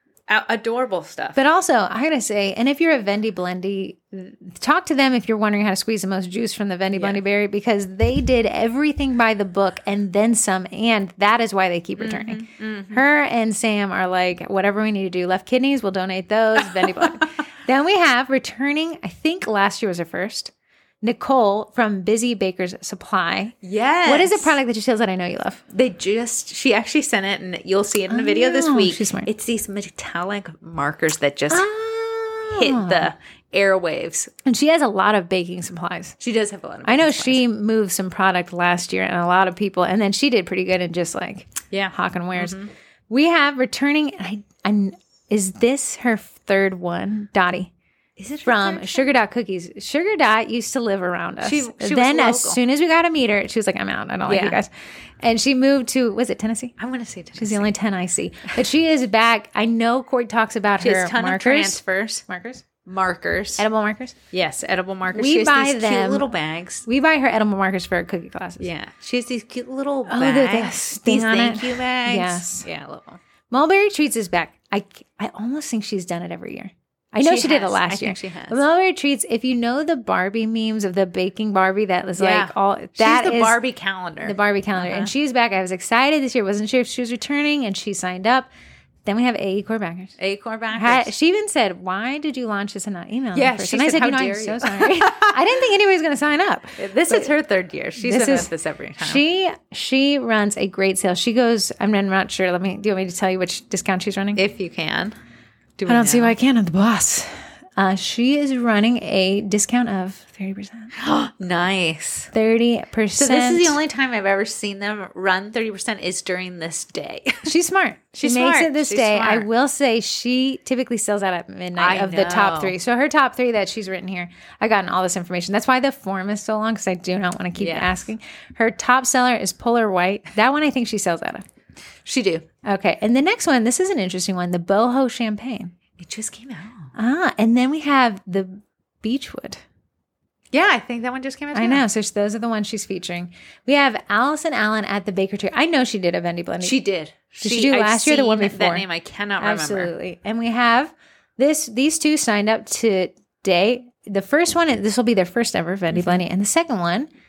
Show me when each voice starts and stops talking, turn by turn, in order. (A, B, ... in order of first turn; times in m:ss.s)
0:00.3-0:01.4 A
0:01.4-0:25.6 B
0:06.9-0:07.2 A
0:12.0-0:13.0 A
0:16.8-0:17.2 A
0:23.6-0:24.6 A
0:25.7-0:31.7 A
0:28.1-0:29.3 B
0:31.5-0:33.1 B
0:32.5-0:34.3 A
0:34.4-0:36.2 B
0:36.2-0:37.4 A
0:36.8-0:42.6 B
0:41.7-0:42.7 A
0:43.1-0:47.7 B
0:48.2-0:49.0 A
0:48.4-0:54.7 B
0:51.4-0:52.6 A
0:54.3-0:54.6 A
0:55.2-0:56.7 B
0:56.8-0:57.7 A
0:57.4-1:02.6 B
1:00.8-1:02.2 A
1:02.8-1:03.6 A
1:03.6-1:04.2 B
1:04.3-1:06.8 A
1:05.1-1:06.3 B
1:06.8-1:08.7 B
1:08.6-1:13.2 A
1:10.1-1:12.7 B
1:13.5-1:23.6 B
1:17.2-1:18.6 A
1:22.2-1:25.1 A
1:24.2-1:28.5 B
1:29.0-1:30.2 B
1:30.2-1:31.1 A
1:30.7-1:37.3 B
1:33.3-1:35.4 A
1:36.8-1:39.2 A
1:38.0-1:44.4 B
1:44.3-1:45.1 A
1:45.8-1:46.4 A
1:45.9-1:50.9 B
1:50.9-1:52.3 A
1:52.3-1:53.8 B
1:53.1-1:57.5 A
1:57.4-2:11.4 B
1:58.2-1:59.5 A
2:01.8-2:02.8 A
2:07.6-2:08.0 A
2:12.0-2:12.4 A
2:12.6-2:15.7 B
2:16.0-2:16.9 A
2:16.9-2:19.6 B
2:20.5-2:21.8 A
2:21.5-2:26.8 B
2:26.6-2:29.9 A
2:27.4-2:28.8 B
2:29.4-2:37.1 B
2:35.9-2:36.2 A